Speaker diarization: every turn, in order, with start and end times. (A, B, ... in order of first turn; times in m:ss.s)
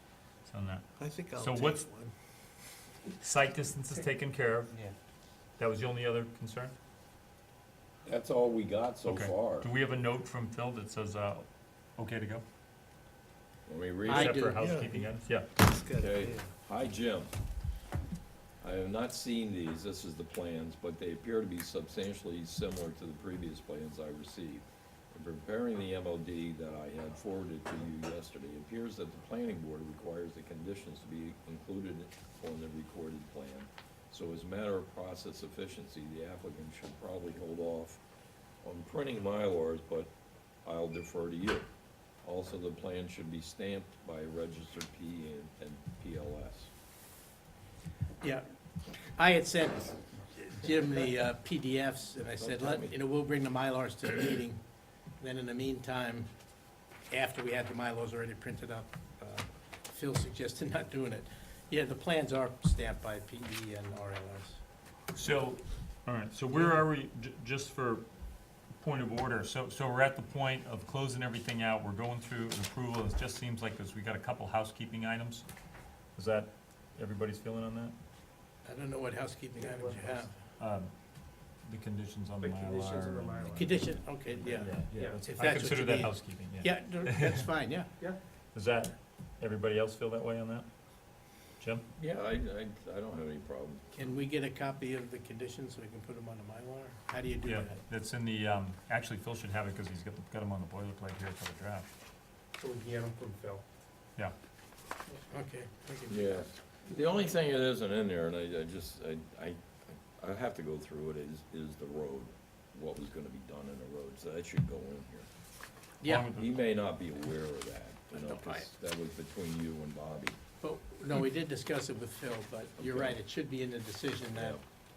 0:00.4-0:01.9 A
0:01.0-0:02.1 B
0:03.2-0:04.8 A
0:05.6-0:06.8 A
0:08.1-0:09.7 C
0:09.0-0:12.4 A
0:13.7-0:14.3 C
0:14.0-0:14.7 D
0:14.1-0:15.5 A
0:14.5-0:16.5 B
0:16.0-0:17.3 C
0:18.6-0:38.0 C
0:38.6-0:40.1 C
0:40.6-0:41.7 C
0:42.2-0:46.7 C
0:48.2-0:48.5 D
0:49.2-0:54.6 D
0:52.3-0:53.0 C
0:55.2-0:56.3 D
0:57.1-1:04.6 D
1:05.1-1:08.0 A
1:08.8-1:15.5 A
1:16.2-1:18.0 A
1:18.6-1:20.3 D
1:19.6-1:20.3 E
1:20.6-1:20.9 A
1:21.6-1:23.8 A
1:22.4-1:24.0 E
1:23.5-1:27.9 D
1:24.3-1:27.5 A
1:24.9-1:25.3 E
1:28.5-1:30.7 A
1:31.6-1:31.9 A
1:32.0-1:34.2 C
1:34.0-1:37.8 D
1:37.4-1:41.9 A
1:42.6-1:43.6 E
1:45.3-1:46.4 D
1:46.1-1:55.3 C
1:56.0-1:56.3 D
1:56.0-1:56.6 A
1:56.3-2:00.4 C
1:58.1-1:58.7 D
2:00.6-2:04.6 D
2:02.8-2:03.2 C
2:04.3-2:04.6 C